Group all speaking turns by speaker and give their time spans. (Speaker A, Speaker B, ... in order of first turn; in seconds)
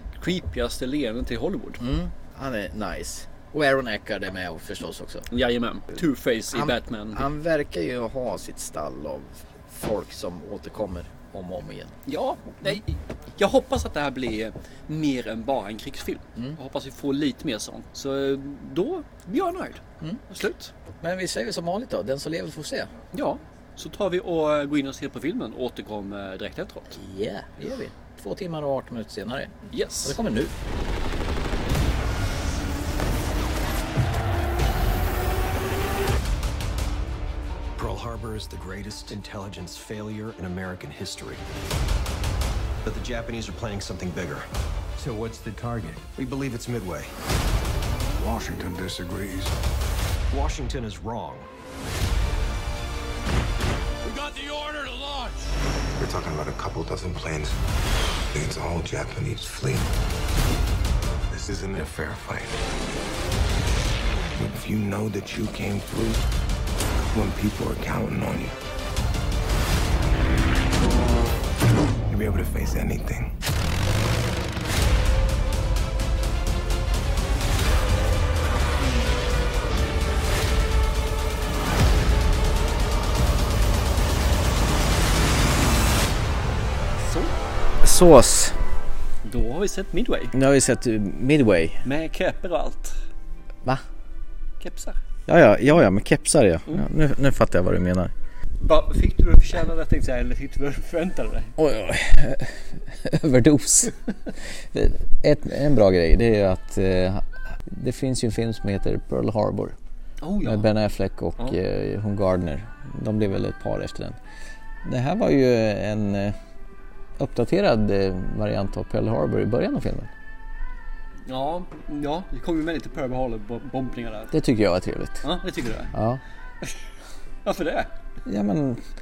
Speaker A: 0.1-1.8, 5.3-7.3, 12.1-20.7, 23.1-27.0, 29.7-30.2, 87.0-87.3, 89.2-90.3, 91.8-93.0, 94.6-95.0, 98.6-101.6, 110.2-110.7, 121.3-124.3, 125.2-125.9, 127.5-127.9
Speaker B: 1.8-5.3, 6.5-12.0, 21.0-22.9, 26.9-30.5, 87.8-88.6, 90.3-91.8, 95.3-98.1, 101.6-104.0, 104.5-109.8, 110.4-114.2, 114.8-116.3, 117.2-120.1, 124.3-125.2, 125.9-126.2, 128.3-128.9
Speaker C: 37.8-41.4, 42.9-44.5, 45.0-47.1, 50.3-51.5
Speaker D: 48.2-49.5, 54.0-55.5
Speaker E: 56.0-57.6, 58.3-59.9, 61.3-62.6, 64.3-66.2, 67.1-68.5, 72.1-73.4